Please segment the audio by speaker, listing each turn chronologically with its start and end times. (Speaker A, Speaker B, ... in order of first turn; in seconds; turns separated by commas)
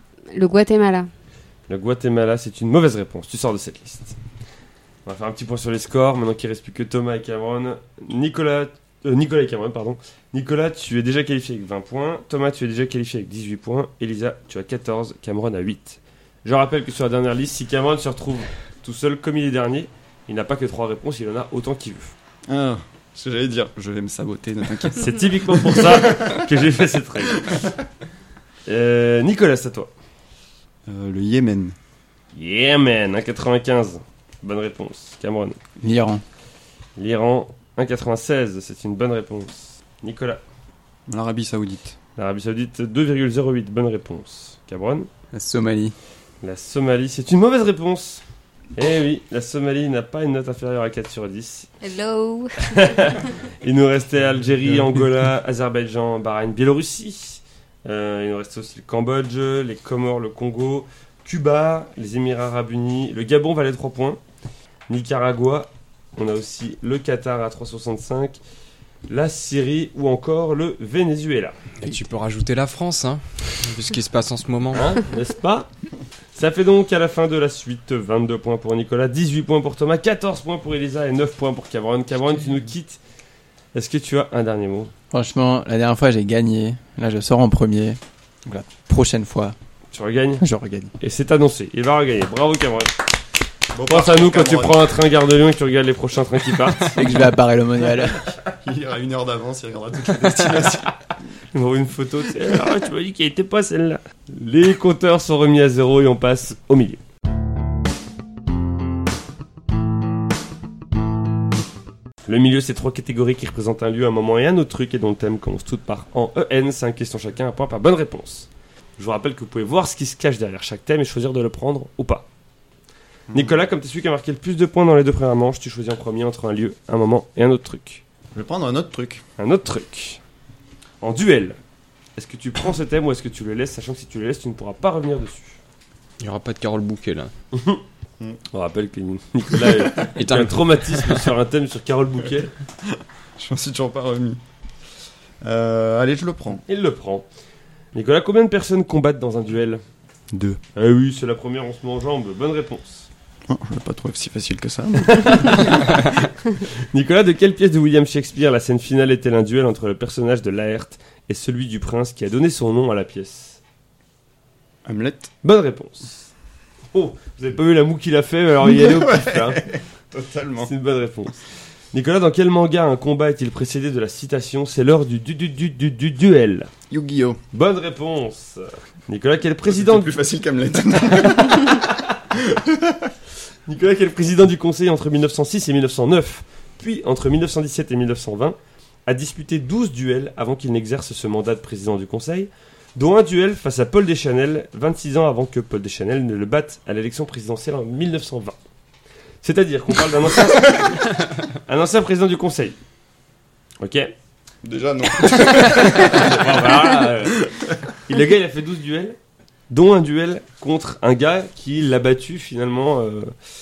Speaker A: 0.3-1.1, Speaker B: 1.7-4.2, Speaker B: 5.0-22.1, Speaker C: 22.5-26.5, Speaker B: 24.9-27.7, Speaker C: 27.4-27.7, Speaker B: 28.6-29.9, Speaker C: 30.9-31.8, Speaker B: 32.3-35.6, Speaker D: 35.8-36.2, Speaker B: 37.0-40.4, Speaker C: 41.1-41.9, Speaker B: 42.2-45.1, Speaker D: 45.3-45.9, Speaker B: 46.4-48.2, Speaker B: 48.8-51.7, Speaker A: 51.8-53.2, Speaker B: 52.6-64.2, Speaker B: 64.9-68.4, Speaker B: 69.1-71.6, Speaker E: 71.8-75.0, Speaker B: 74.7-75.7, Speaker B: 76.3-83.0, Speaker B: 83.7-84.9, Speaker D: 85.1-89.5, Speaker B: 89.9-90.4, Speaker D: 90.4-90.9, Speaker B: 91.0-93.0, Speaker C: 93.7-94.9, Speaker B: 93.8-97.0, Speaker D: 96.9-98.3, Speaker C: 98.6-101.0, Speaker B: 101.5-107.0, Speaker B: 112.2-122.3, Speaker C: 123.3-123.6, Speaker B: 123.3-128.0, Speaker C: 128.3-129.2, Speaker B: 129.4-130.2, Speaker B: 131.0-131.6, Speaker B: 132.2-135.6, Speaker E: 136.2-137.3, Speaker B: 137.5-137.8, Speaker B: 138.5-142.5, Speaker E: 140.1-141.3, Speaker C: 142.8-144.4, Speaker C: 145.4-146.6, Speaker B: 146.7-147.3, Speaker B: 147.9-149.8, Speaker C: 150.3-150.6, Speaker B: 150.7-153.1, Speaker C: 153.5-155.8, Speaker B: 155.1-155.8, Speaker B: 156.9-163.6, Speaker C: 164.8-165.3, Speaker B: 165.4-166.3, Speaker B: 166.9-169.7, Speaker C: 168.6-170.7, Speaker B: 170.6-176.7, Speaker C: 176.9-177.4, Speaker B: 177.5-180.1, Speaker C: 179.7-183.1, Speaker B: 181.4-182.0, Speaker B: 183.7-198.6, Speaker B: 199.4-202.8, Speaker B: 203.8-204.1, Speaker C: 204.6-207.8, Speaker B: 205.4-207.4, Speaker B: 208.1-209.2, Speaker B: 209.7-213.3